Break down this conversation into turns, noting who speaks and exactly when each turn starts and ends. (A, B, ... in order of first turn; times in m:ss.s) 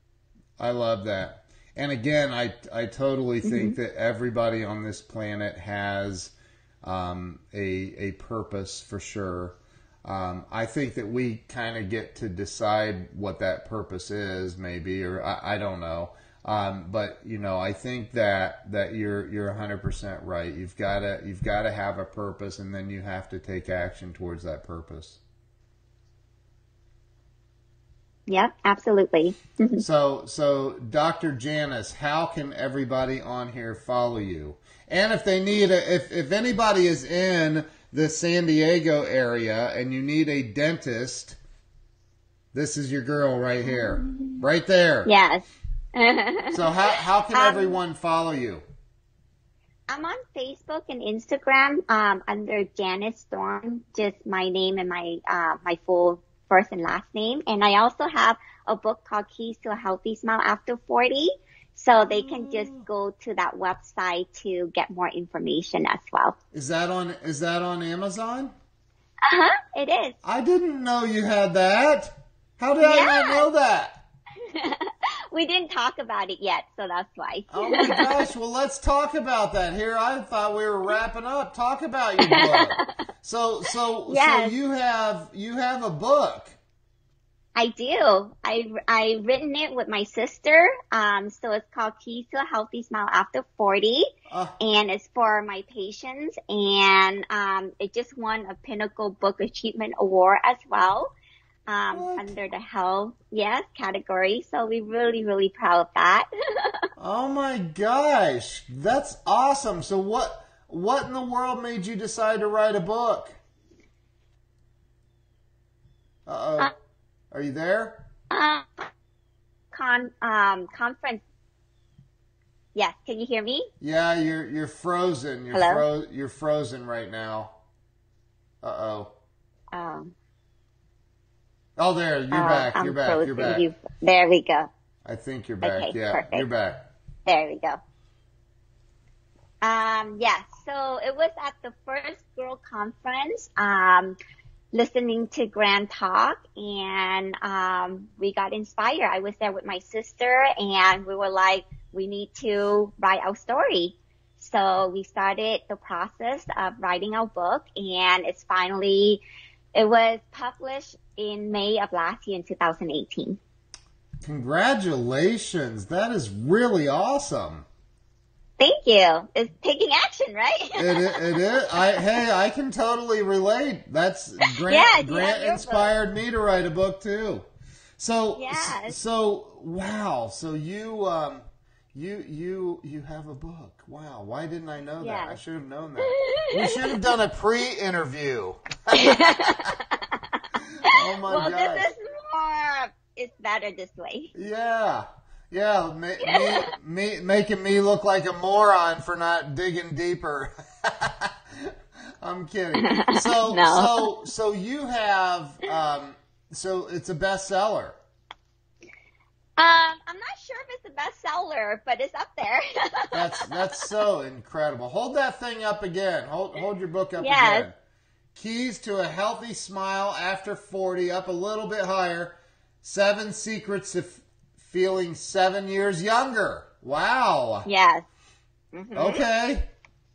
0:00.6-0:25.2 A
0:03.4-0:03.8 B
0:28.3-0:29.8 B
0:29.8-0:41.4 A
0:42.5-0:45.1 A
0:43.8-0:44.4 B
0:45.1-0:46.7 B
0:46.5-0:48.6 A
0:47.3-0:47.8 B
0:49.9-1:06.4 B
1:02.1-1:02.8 A
1:06.5-1:08.5 A
1:09.2-1:10.2 B
1:10.2-1:14.0 A
1:12.8-1:13.5 B
1:14.4-1:18.3 B
1:17.5-1:26.6 A
1:22.2-1:22.8 B
1:24.1-1:24.6 B
1:27.6-1:41.1 B
1:34.3-1:34.6 A
1:41.7-1:46.8 B
1:41.9-1:42.3 A
1:47.0-1:53.3 A
1:56.3-1:56.7 A
1:57.3-1:58.0 A
1:58.3-1:58.9 B
1:59.7-2:01.2 B
2:02.8-2:03.7 B
2:03.8-2:07.6 A
2:05.5-2:05.8 B
2:08.6-2:09.1 A
2:09.7-2:10.1 B
2:11.8-2:13.7 A
2:12.3-2:14.7 B
2:15.0-2:16.9 A
2:15.6-2:16.5 B
2:17.3-2:17.8 B
2:19.6-2:24.2 B
2:24.7-2:39.2 B
2:39.8-2:43.4 B
2:44.2-2:47.7 A
2:48.6-2:52.1 B
2:50.8-2:57.5 A
2:54.7-2:55.9 B
2:58.0-3:01.4 A
2:58.4-2:59.0 B
3:01.9-3:09.7 A
3:05.0-3:05.4 B
3:06.0-3:07.1 B
3:08.9-3:14.3 B
3:10.8-3:11.9 A
3:14.3-3:28.0 A
3:16.2-3:16.7 B
3:22.8-3:24.1 B
3:29.6-3:33.9 B
3:33.1-3:37.7 A
3:37.2-3:37.7 B
3:38.4-3:47.7 A
3:47.7-3:48.0 B
3:48.7-3:49.2 B
3:49.0-3:49.7 A